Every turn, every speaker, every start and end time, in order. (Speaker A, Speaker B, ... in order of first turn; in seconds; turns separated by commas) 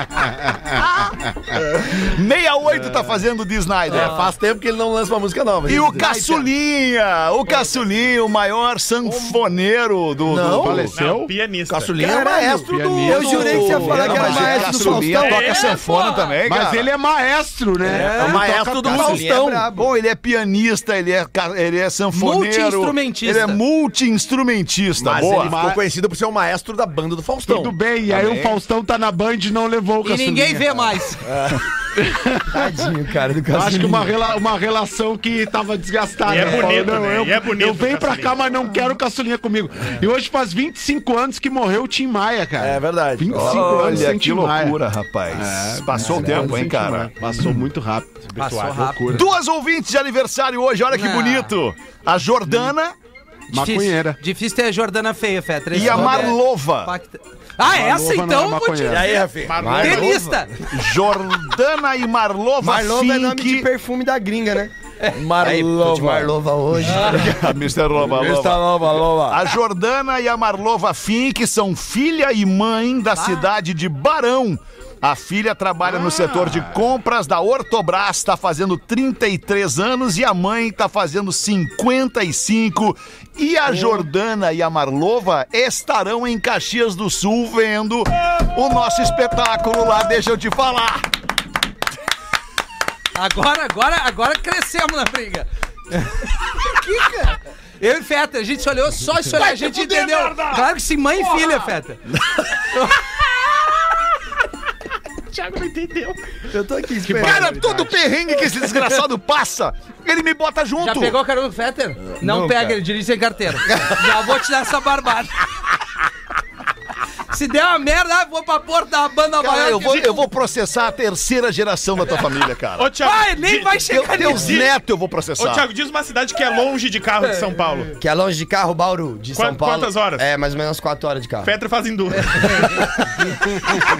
Speaker A: 0.7-4.2, Speaker B: 3.9-6.4, Speaker A: 5.7-10.9, Speaker B: 10.2-10.9, Speaker C: 10.4-11.3, Speaker D: 10.9-12.0, Speaker B: 11.7-14.6, Speaker E: 12.0-15.7, Speaker C: 12.5-15.2, Speaker A: 13.7-16.9, Speaker D: 15.2-16.2, Speaker F: 15.5-15.9, Speaker C: 16.4-19.2, Speaker B: 17.8-19.7, Speaker F: 17.9-18.4, Speaker E: 18.8-19.9, Speaker A: 19.7-25.6, Speaker F: 22.1-23.6, Speaker B: 25.0-27.8, Speaker C: 25.3-25.8, Speaker C: 27.4-30.7, Speaker A: 28.1-28.6, Speaker F: 30.0-31.2, Speaker B: 31.2-31.6, Speaker C: 32.0-32.6, Speaker E: 32.5-34.1, Speaker C: 33.5-44.8, Speaker D: 36.2-38.6, Speaker B: 42.6-44.2, Speaker A: 43.3-47.1, Speaker C: 45.3-49.3, Speaker F: 48.4-49.2, Speaker A: 49.1-52.9, Speaker F: 50.9-51.5, Speaker C: 53.5-54.2, Speaker F: 53.5-59.2, Speaker A: 55.7-56.9, Speaker C: 55.8-56.3, Speaker C: 57.6-59.2, Speaker B: 58.9-59.9, Speaker D: 59.4-60.3, Speaker E: 59.6-60.3, Speaker F: 59.8-60.5, Speaker A: 60.7-63.7, Speaker E: 62.6-64.7, Speaker B: 65.1-66.3, Speaker E: 65.4-67.4, Speaker A: 66.8-91.1, Speaker B: 68.0-69.4, Speaker F: 73.1-73.5, Speaker F: 93.1-96.3, Speaker A: 96.8-97.2, Speaker F: 97.8-102.0, Speaker A: 99.3-100.7, Speaker A: 101.3-101.6, Speaker F: 102.6-103.0, Speaker D: 105.3-106.3, Speaker E: 106.5-107.6, Speaker C: 107.0-107.9, Speaker A: 107.1-111.2, Speaker F: 110.8-115.4, Speaker E: 112.2-112.8, Speaker F: 117.3-120.3, Speaker A: 119.4-123.0, Speaker D: 122.8-124.7, Speaker F: 123.0-124.6, Speaker A: 123.8-125.7, Speaker D: 125.4-127.9, Speaker E: 128.0-131.5, Speaker D: 129.3-130.2, Speaker D: 131.4-133.0, Speaker F: 132.3-133.0